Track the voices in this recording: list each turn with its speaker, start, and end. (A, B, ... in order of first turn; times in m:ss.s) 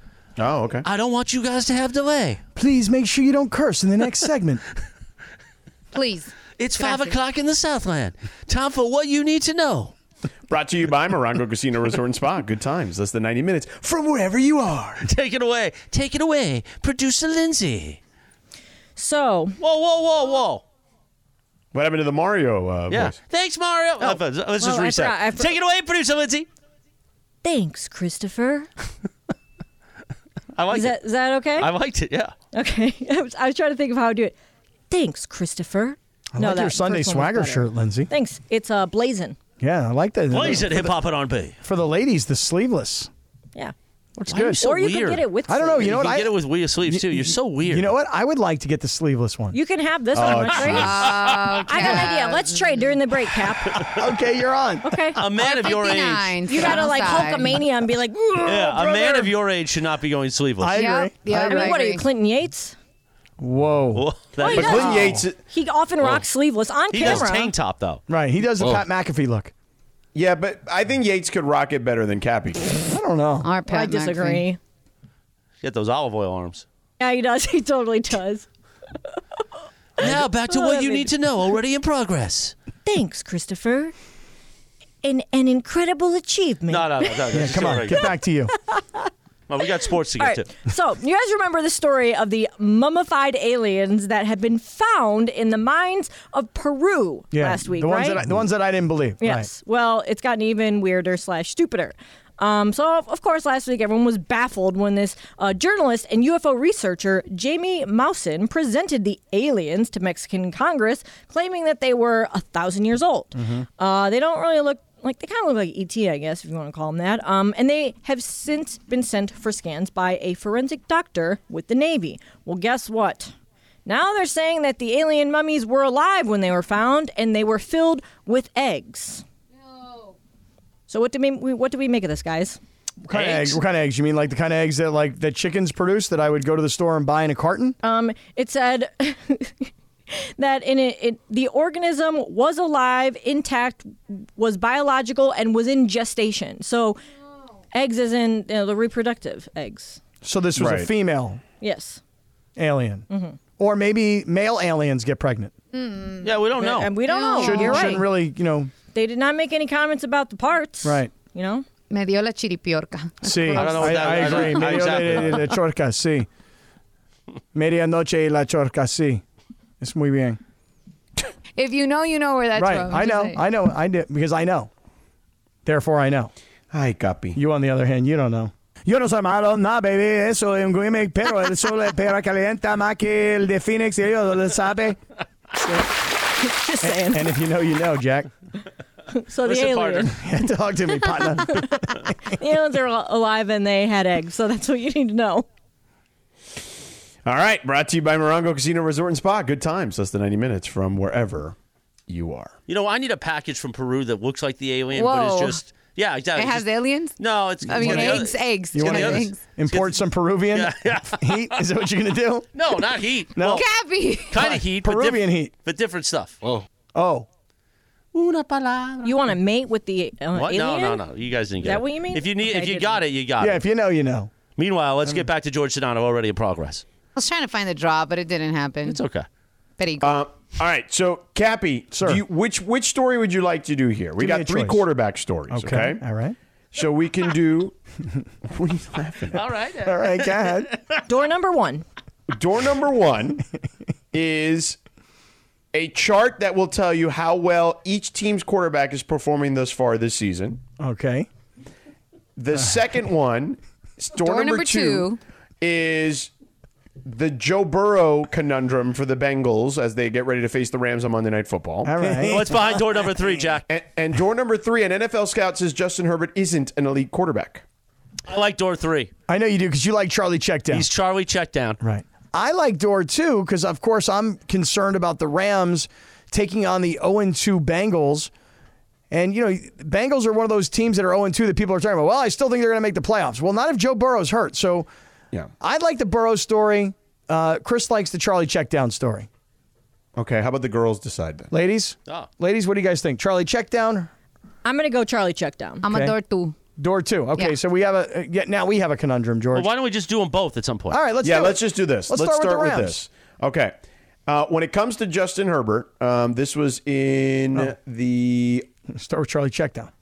0:00.4-0:00.8 A
0:00.8-0:02.4 B
0:02.6-0:04.6 C
0:05.9-0:07.1 D
0:06.6-0:09.9 B
0:10.5-0:15.0 A
0:15.0-0:18.0 B
0:19.0-0:19.6 E
0:19.6-0:20.6 B
0:21.7-0:23.2 A
0:22.9-0:26.5 B
0:24.0-0:25.5 E
0:27.4-0:28.7 E
0:30.5-0:31.0 B
0:30.7-0:31.7 E
0:31.6-0:32.3 B
0:32.5-0:34.4 E
0:34.9-0:39.4 E
0:36.4-0:38.1 C
0:39.6-0:40.9 C
0:40.3-0:41.6 B
0:41.6-0:43.1 C
0:44.2-0:44.6 C
0:44.2-0:45.2 B
0:44.6-0:46.0 E
0:45.5-0:46.3 C
0:45.8-0:47.9 B
0:46.8-0:49.6 C
0:49.5-0:54.0 E
0:50.1-0:51.1 A
0:50.7-0:51.4 B
0:50.7-0:52.9 D
0:53.8-0:55.2 C
0:54.8-0:55.2 E
0:55.2-0:56.8 B
0:55.4-0:57.6 D
0:56.5-0:58.8 E
0:58.4-1:00.8 B
0:58.5-0:59.3 C
1:00.6-1:01.7 C
1:00.7-1:02.0 D
1:01.3-1:02.8 E
1:03.4-1:05.2 C
1:03.9-1:05.0 B
1:04.4-1:07.5 E
1:04.5-1:05.4 A
1:06.9-1:08.0 B
1:08.1-1:09.5 C
1:10.1-1:12.7 A
1:12.8-1:13.5 C
1:13.4-1:14.4 D
1:13.6-1:14.6 E
1:15.6-1:16.6 B
1:17.0-1:18.4 E
1:20.0-1:21.1 E
1:20.0-1:22.5 B
1:22.8-1:23.9 E
1:25.0-1:27.7 E
1:26.7-1:28.2 B
1:27.3-1:28.5 C
1:28.7-1:29.1 E
1:29.5-1:30.5 B
1:30.2-1:38.2 E
1:37.3-1:39.5 C
1:39.2-2:03.3 E
1:53.3-1:53.6 C
2:03.8-2:09.2 E
2:10.9-2:12.6 E
2:13.0-2:17.8 C
2:13.1-2:13.6 B
2:17.8-2:27.0 E
2:27.7-2:30.0 E
2:30.2-2:31.4 C
2:30.6-2:30.9 A
2:31.6-2:32.0 E
2:32.6-2:33.0 C
2:33.1-2:33.4 E
2:33.6-2:35.5 C
2:35.7-2:36.4 D
2:36.2-2:36.9 B
2:36.6-2:38.0 E
2:37.0-2:38.1 D
2:37.4-2:38.7 C
2:38.9-2:41.6 E
2:40.8-2:41.1 C
2:41.9-2:44.9 D
2:43.2-2:46.3 C
2:43.5-2:45.5 B
2:47.5-2:49.2 C
2:49.8-2:50.4 C
2:51.6-2:53.4 D
2:52.6-2:54.7 C
2:55.6-2:56.3 C
2:56.7-2:57.4 A
2:57.3-3:05.0 C
3:05.5-3:05.9 C
3:06.4-3:07.3 E
3:06.8-3:08.3 C
3:09.1-3:10.2 E
3:09.4-3:10.2 B
3:10.1-3:12.1 C
3:11.0-3:15.4 E
3:17.2-3:21.5 A
3:22.1-3:22.5 A
3:22.7-3:31.6 B
3:24.9-3:25.6 D
3:26.3-3:29.4 D
3:27.8-3:32.5 C
3:32.5-3:33.6 B
3:33.4-3:33.6 C
3:33.5-3:34.6 D
3:34.3-3:36.4 B
3:34.4-3:35.5 C
3:36.9-3:37.3 C
3:38.1-3:39.2 B
3:39.0-3:41.0 E
3:40.3-3:43.6 B
3:41.6-3:43.0 E
3:43.4-3:44.3 C
3:44.6-3:46.8 B
3:47.2-3:49.0 D
3:48.8-3:49.3 B
3:49.8-3:50.1 D
3:50.0-3:56.0 A
3:51.9-3:52.2 C
3:54.2-3:54.8 C
3:55.5-3:56.4 C
3:56.7-3:57.7 A
3:58.5-3:59.4 A
3:59.3-4:01.0 B
3:59.8-4:00.7 C
4:01.1-4:01.8 E
4:02.3-4:03.4 A
4:04.1-4:04.8 A
4:05.7-4:10.6 A
4:10.8-4:11.3 C
4:12.4-4:15.0 A
4:14.1-4:15.2 D
4:15.6-4:16.3 A
4:17.0-4:22.3 A
4:21.8-4:22.6 C
4:22.3-4:23.6 B
4:23.7-4:27.6 A
4:28.3-4:29.1 B
4:29.3-4:30.8 C
4:30.7-4:31.8 B
4:31.8-4:38.3 C
4:39.1-4:44.9 C
4:45.6-4:49.3 C
4:50.2-4:51.5 A
4:51.5-4:54.1 C
4:54.6-4:55.8 E
4:55.8-4:56.6 D
4:55.9-4:56.1 C
4:56.8-4:59.7 C
4:59.5-5:01.0 B
5:00.9-5:03.0 C
5:01.2-5:03.7 A
5:04.3-5:08.7 A
5:08.9-5:09.9 C